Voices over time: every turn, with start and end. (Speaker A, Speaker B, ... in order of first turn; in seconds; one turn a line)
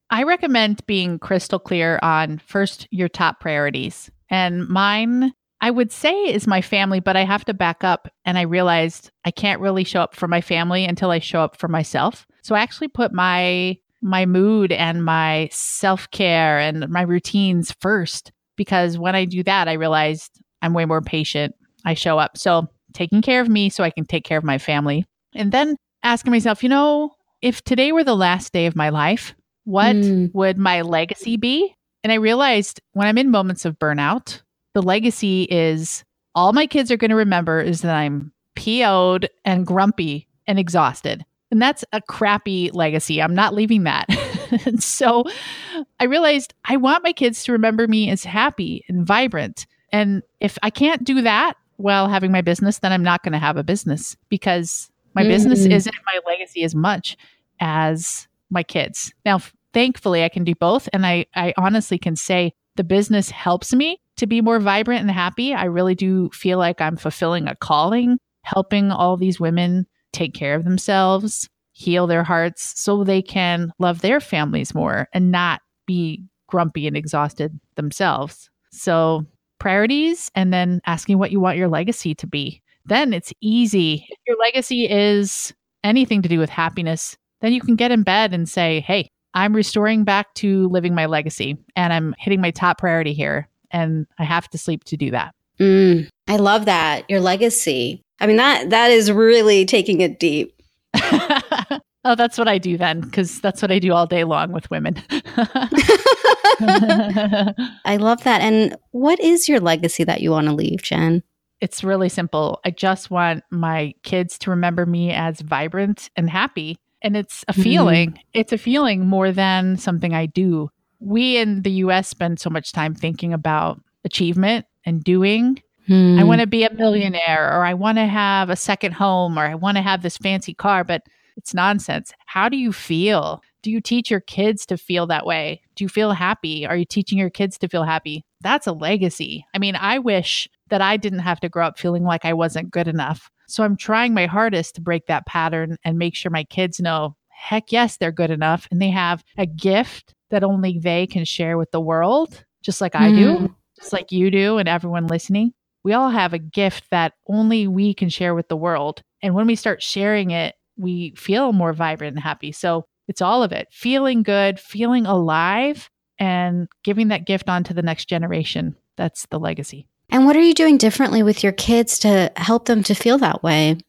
Speaker A: 0.1-95.3
Speaker B: 29.8-30.3
Speaker B: 55.2-55.8
Speaker B: 95.6-100.5
Speaker A: 100.9-105.8
Speaker B: 105.7-107.0
Speaker A: 106.6-107.7
Speaker B: 107.8-111.2
Speaker A: 111.6-125.6
Speaker B: 117.6-118.1
Speaker B: 125.9-126.4
Speaker A: 126.2-169.8
Speaker B: 153.0-153.5
Speaker B: 170.1-173.8